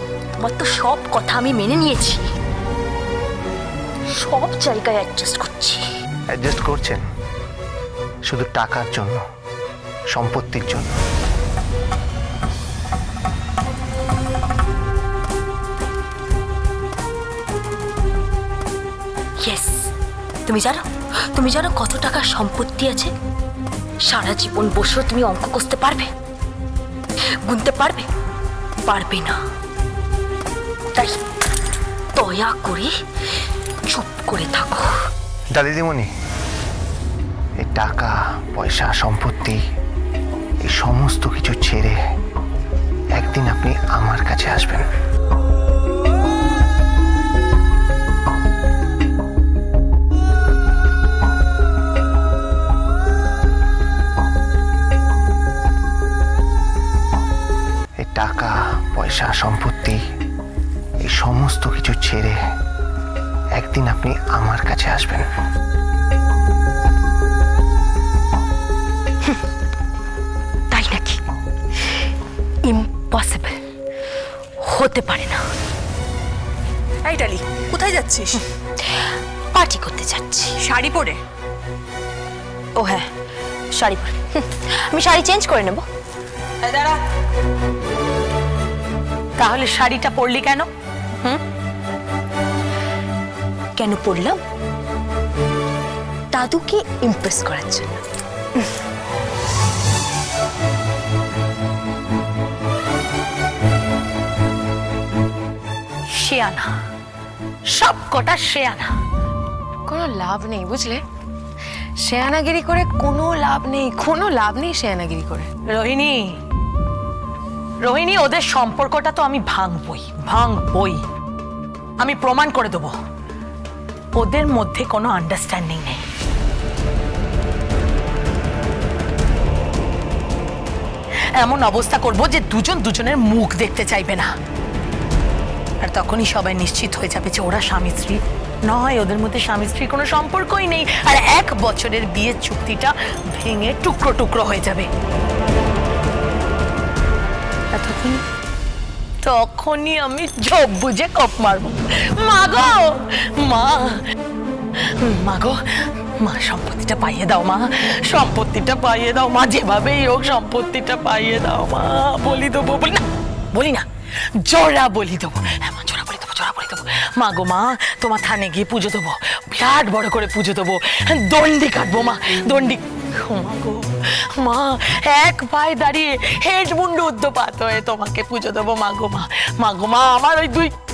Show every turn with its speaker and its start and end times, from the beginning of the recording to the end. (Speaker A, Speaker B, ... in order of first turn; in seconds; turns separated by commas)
Speaker A: 0.4-2.2, Speaker A: 4.2-5.8, Speaker B: 6.3-7.0, Speaker B: 8.3-9.2, Speaker B: 10.1-11.0, Speaker A: 19.4-19.9, Speaker A: 20.4-23.1, Speaker A: 24.0-26.1, Speaker A: 27.4-28.1, Speaker A: 28.9-29.4, Speaker A: 32.1-32.9, Speaker A: 33.9-35.0, Speaker B: 35.5-36.1, Speaker B: 37.6-39.6, Speaker B: 40.6-42.0, Speaker B: 43.1-44.9, Speaker B: 58.0-60.0, Speaker B: 61.0-62.4, Speaker B: 63.5-65.2, Speaker A: 70.7-71.2, Speaker A: 72.6-73.6, Speaker A: 74.6-75.4, Speaker A: 79.5-80.5, Speaker C: 80.6-81.2, Speaker A: 82.8-83.1, Speaker A: 83.7-85.8, Speaker C: 86.7-86.9, Speaker D: 89.4-90.7, Speaker A: 93.8-94.4, Speaker A: 96.3-98.0, Speaker D: 106.1-106.7, Speaker D: 107.7-108.9, Speaker C: 109.9-111.0, Speaker C: 112.0-115.5, Speaker D: 115.6-116.4, Speaker D: 117.8-121.0, Speaker D: 122.0-122.9, Speaker D: 124.1-126.0, Speaker D: 131.4-134.3, Speaker D: 135.8-144.9, Speaker D: 147.7-148.2, Speaker D: 149.2-154.0, Speaker D: 155.0-155.6, Speaker D: 156.2-163.8, Speaker D: 164.4-180.7